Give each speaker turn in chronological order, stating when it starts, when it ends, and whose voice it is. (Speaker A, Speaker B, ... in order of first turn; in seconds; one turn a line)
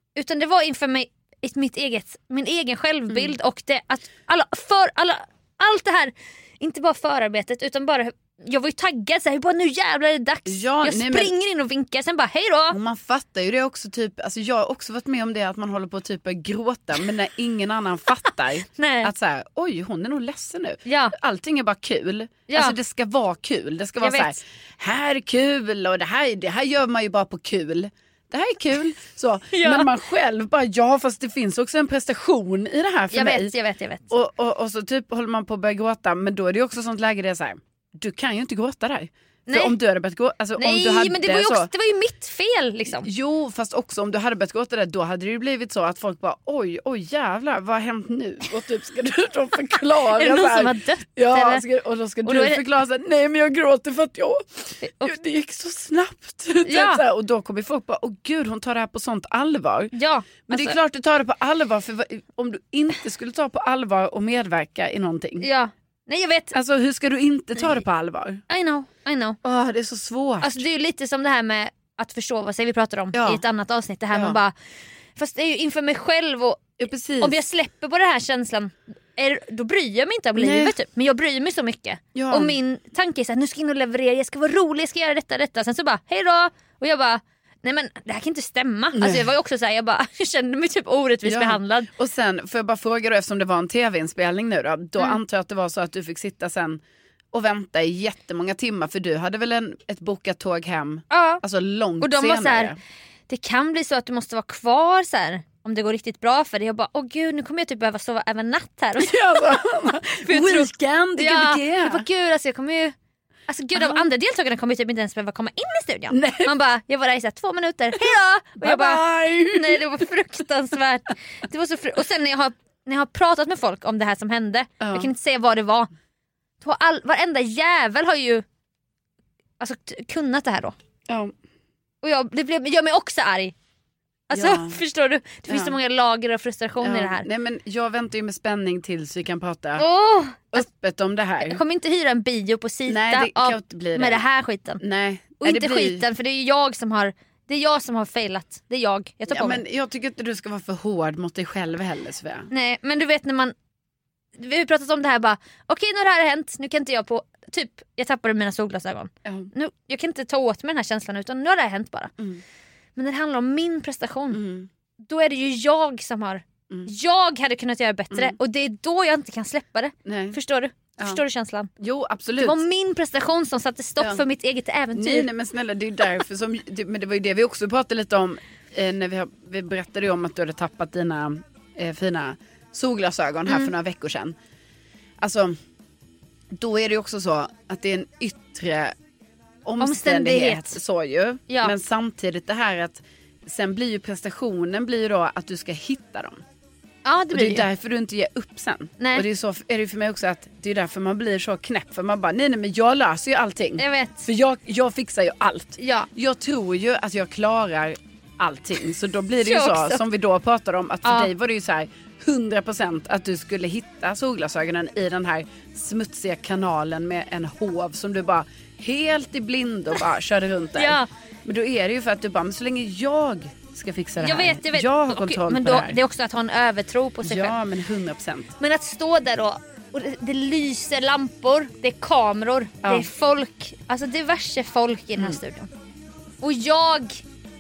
Speaker A: 0.2-12.8
Speaker B: 10.5-11.3
Speaker B: 12.7-33.5
Speaker A: 18.8-19.1
Speaker A: 20.9-21.1
Speaker A: 22.5-22.8
Speaker A: 24.0-24.4
Speaker A: 29.5-29.9
Speaker A: 33.1-34.1
Speaker B: 34.1-41.7
Speaker A: 39.5-39.8
Speaker A: 40.6-43.1
Speaker B: 42.9-59.9
Speaker A: 50.1-51.6
Speaker A: 52.2-52.6
Speaker A: 54.8-55.2
Speaker A: 56.6-57.0
Speaker A: 59.9-60.8
Speaker B: 60.5-65.5
Speaker A: 65.4-66.5
Speaker B: 66.5-68.4
Speaker A: 68.5-69.4
Speaker B: 69.4-70.6
Speaker A: 70.4-74.5
Speaker B: 73.1-73.4
Speaker B: 74.1-74.4
Speaker A: 75.2-91.9
Speaker B: 76.8-77.4
Speaker B: 80.4-80.8
Speaker B: 82.2-82.6
Speaker B: 88.9-89.3
Speaker B: 91.2-96.8
Speaker B: 97.3-102.8
Speaker A: 101.1-101.4
Speaker A: 102.0-102.7
Speaker A: 103.3-109.6
Speaker B: 109.0-112.1
Speaker A: 110.1-113.0
Speaker A: 113.5-125.9
Speaker B: 113.8-114.1
Speaker B: 116.1-116.5
Speaker B: 118.0-120.0
Speaker B: 124.8-125.1
Speaker A: 126.6-128.4
Speaker A: 129.6-130.8
Speaker B: 131.1-131.3
Speaker A: 132.0-133.5
Speaker A: 134.3-137.3
Speaker B: 134.3-134.8
Speaker B: 135.5-135.8
Speaker B: 136.8-139.9
Speaker A: 139.8-140.7
Speaker B: 140.5-141.6
Speaker A: 141.4-144.8
Speaker B: 142.9-144.2
Speaker B: 144.8-146.1
Speaker A: 145.4-149.6
Speaker B: 149.3-152.5
Speaker A: 152.5-153.6
Speaker A: 154.4-162.1
Speaker B: 159.2-159.5
Speaker B: 162.2-162.4
Speaker A: 163.0-164.4
Speaker B: 164.3-164.7
Speaker A: 165.0-171.7
Speaker B: 168.1-168.4
Speaker B: 170.1-170.4
Speaker B: 171.8-172.6
Speaker A: 172.4-175.3
Speaker B: 174.9-184.4
Speaker B: 185.2-185.6
Speaker B: 186.5-189.0
Speaker B: 189.7-196.4
Speaker A: 189.8-190.8
Speaker A: 191.5-191.7
Speaker A: 197.1-197.7
Speaker B: 197.3-226.0
Speaker A: 199.0-199.3
Speaker A: 203.8-204.3
Speaker A: 205.8-206.1
Speaker A: 209.4-210.0
Speaker A: 211.1-211.3
Speaker A: 220.8-221.1
Speaker A: 224.2-227.6
Speaker B: 227.2-228.5
Speaker A: 228.6-235.7
Speaker B: 232.8-233.1
Speaker A: 236.4-237.2